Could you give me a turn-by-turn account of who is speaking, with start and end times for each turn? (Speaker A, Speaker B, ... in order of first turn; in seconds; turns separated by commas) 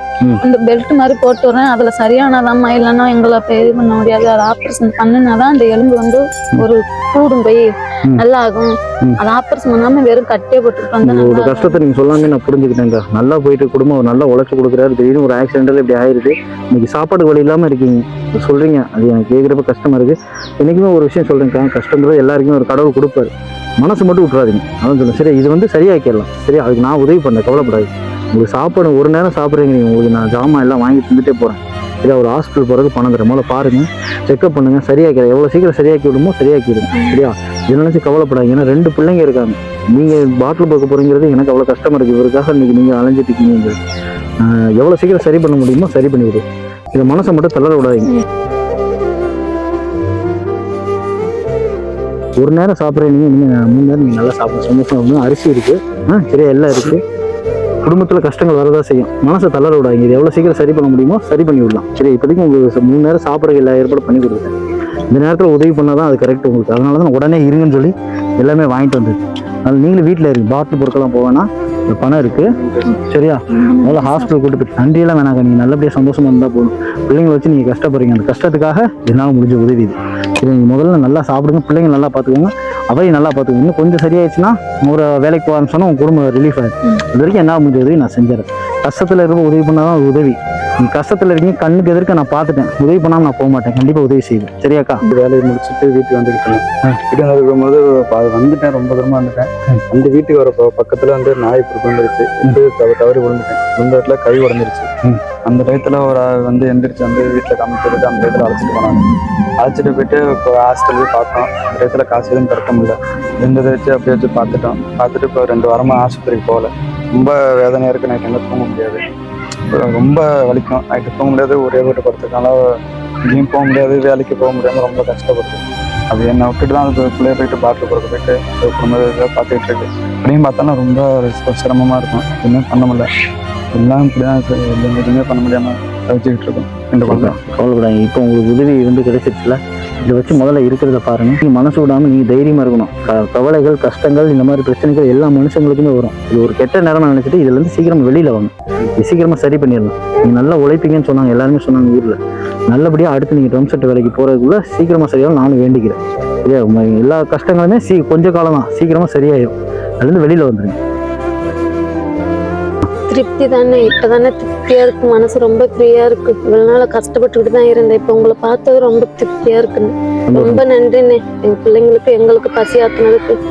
Speaker A: 0.4-8.7, Speaker A: 9.2-11.8, Speaker B: 11.0-43.8, Speaker B: 44.4-48.1, Speaker B: 52.4-57.0, Speaker B: 57.9-64.5, Speaker B: 65.1-95.1, Speaker C: 72.2-73.0, Speaker A: 73.6-74.3, Speaker C: 95.1-104.9, Speaker C: 105.5-109.1, Speaker C: 109.6-119.0, Speaker C: 119.7-122.6, Speaker C: 123.2-133.1, Speaker C: 133.7-137.4, Speaker B: 137.1-160.8, Speaker A: 163.1-173.4, Speaker B: 170.3-170.6